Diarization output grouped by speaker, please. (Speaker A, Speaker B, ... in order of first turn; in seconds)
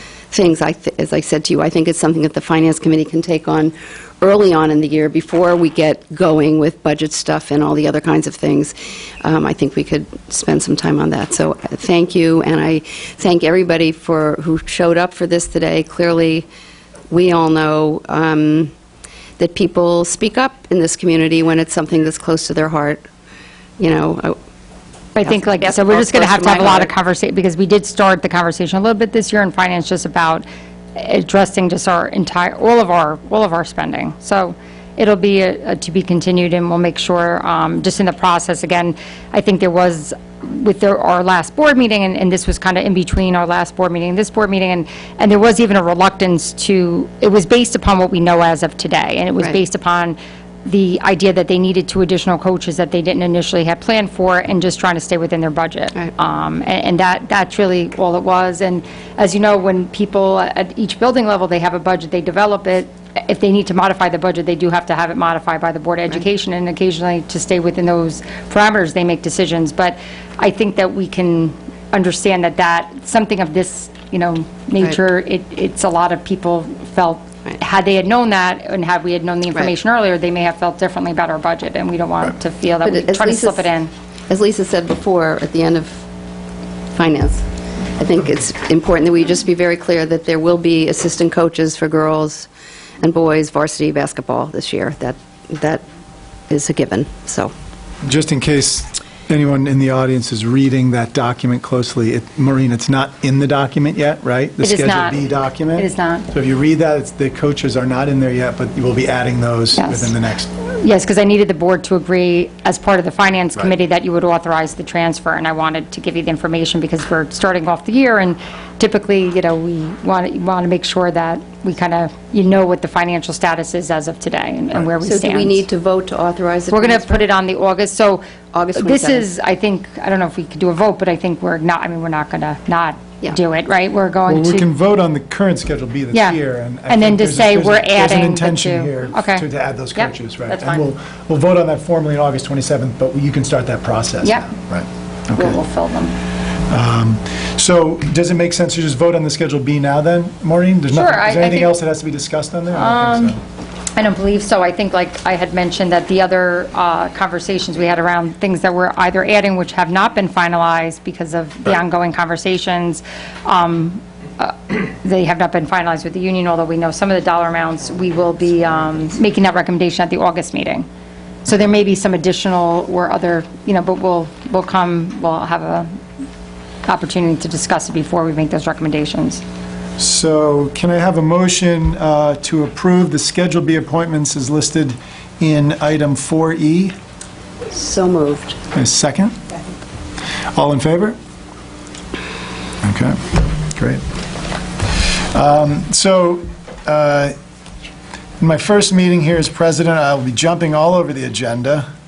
Speaker A: 0.3-16.4, 17.1-18.7, 19.4-23.0, 23.8-24.4, 25.2-26.9, 82.8-83.7, 84.3-86.1, 86.9-92.5, 93.0-95.8, 96.5-97.5, 125.0-127.3, 128.5-129.2, 187.7-188.6
Speaker B: 25.1-30.4, 30.9-83.9, 104.6-106.3, 109.7-125.6, 126.7-128.2, 128.8-134.7, 136.1-140.9, 144.2-144.5, 145.3-146.2, 150.9-151.7, 152.7-153.4, 153.9-170.9, 171.4-175.9, 176.8-179.4
Speaker C: 98.0-110.5, 134.3-145.6, 146.7-153.4, 180.0-186.9, 188.7-189.3, 190.5-191.2, 192.8-193.2, 193.8-194.0, 195.3-197.3, 198.4-201.8